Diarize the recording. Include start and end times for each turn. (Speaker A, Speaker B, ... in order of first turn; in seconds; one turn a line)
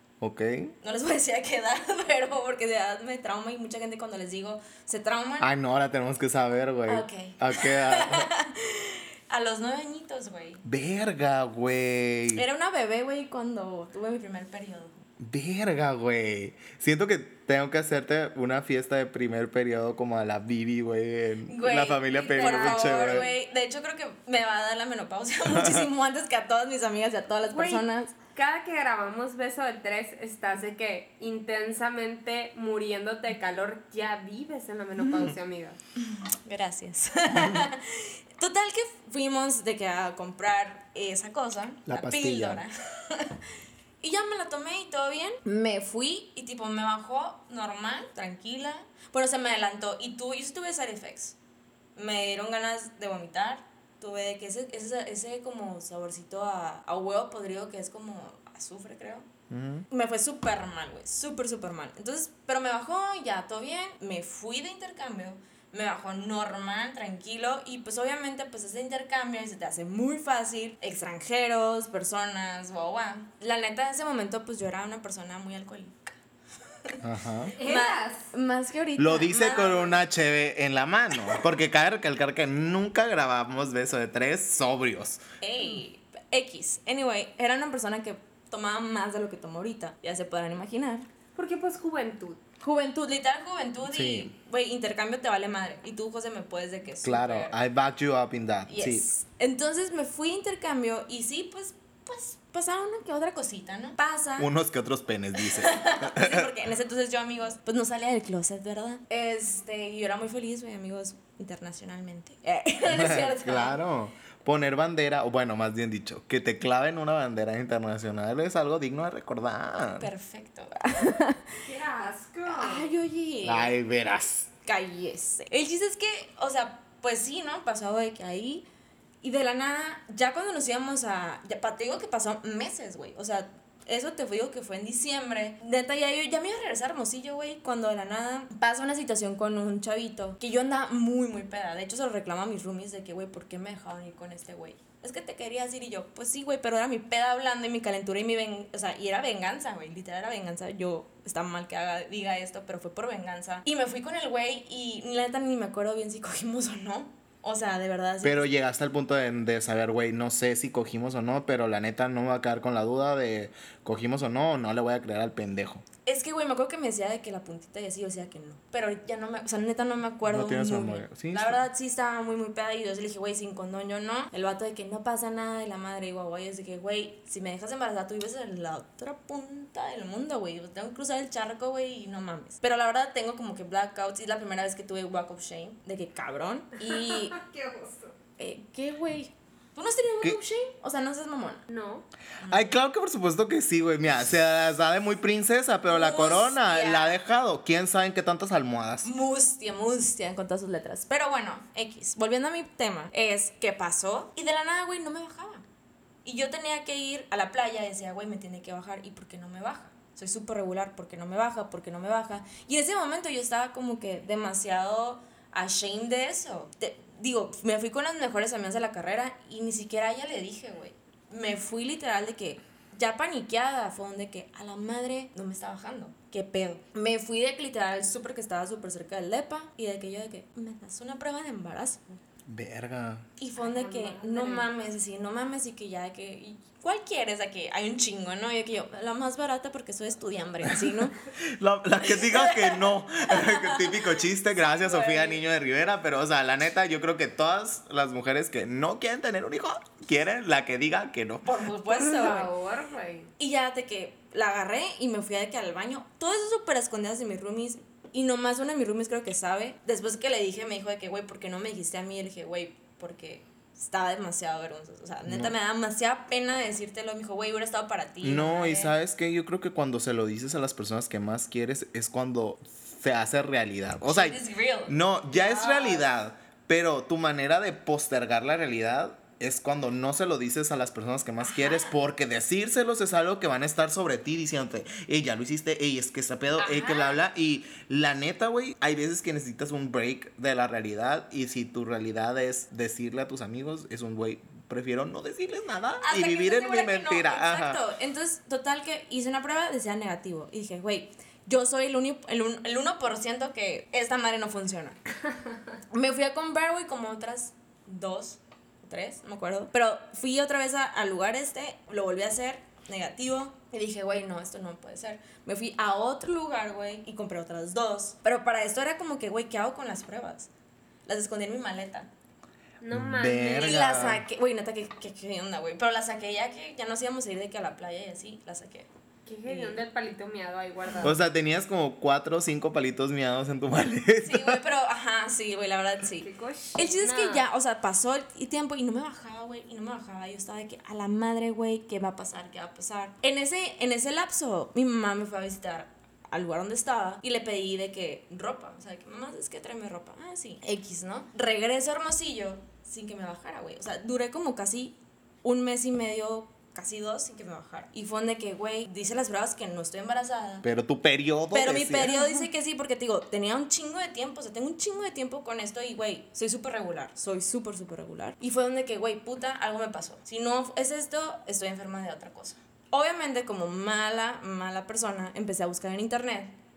Speaker A: 0.2-0.7
Speaker B: 0.8-5.5
Speaker A: 5.4-8.3
Speaker B: 6.9-10.6
Speaker A: 10.6-12.4
Speaker B: 12.3-14.9
Speaker A: 15.2-23.3
Speaker B: 21.5-28.1
Speaker C: 22.2-23.3
Speaker A: 25.4-25.9
Speaker C: 27.5-35.8
Speaker B: 36.1-43.5
Speaker A: 41.9-42.6
Speaker B: 44.0-51.4
Speaker B: 52.0-59.3
Speaker A: 59.5-59.9
Speaker B: 59.9-76.2
Speaker A: 77.0-77.5
Speaker C: 77.5-78.3
Speaker B: 77.6-80.0
Speaker A: 79.0-85.2
Speaker B: 85.4-91.1
Speaker C: 91.3-92.4
Speaker B: 92.6-97.5
Speaker A: 93.8-94.3
Speaker A: 97.0-99.1
Speaker B: 98.7-104.5
Speaker A: 104.4-106.5
Speaker B: 105.4-113.8
Speaker A: 112.9-120.1
Speaker B: 120.0-121.5
Speaker C: 121.6-122.9
Speaker B: 122.5-123.8
Speaker A: 123.4-124.5
Speaker B: 124.6-128.6
Speaker B: 129.2-158.4
Speaker A: 158.2-165.8
Speaker B: 166.0-187.3
Speaker A: 170.2-171.6
Speaker C: 186.9-188.1
Speaker B: 188.4-191.6
Speaker C: 191.7-192.1
Speaker B: 192.4-192.8
Speaker A: 192.5-199.1
Speaker B: 195.9-197.1
Speaker B: 199.0-205.7
Speaker B: 206.2-232.1
Speaker A: 232.5-233.3
Speaker B: 233.4-241.2
Speaker C: 233.6-234.7
Speaker A: 241.4-251.6
Speaker B: 242.1-244.0
Speaker B: 244.7-245.3
Speaker B: 251.4-252.5
Speaker C: 251.9-253.3
Speaker B: 253.4-268.9
Speaker A: 265.2-265.5
Speaker A: 268.2-297.8
Speaker B: 274.0-276.0
Speaker B: 281.4-281.9
Speaker B: 286.6-287.2
Speaker B: 296.0-305.0
Speaker B: 305.9-320.5
Speaker B: 321.1-322.1
Speaker C: 322.8-323.9
Speaker A: 322.9-324.2
Speaker B: 323.6-328.9
Speaker C: 329.2-331.2
Speaker B: 329.4-329.8
Speaker A: 331.0-334.6
Speaker B: 334.2-360.6
Speaker C: 336.2-337.5
Speaker A: 360.6-362.4
Speaker B: 361.5-376.5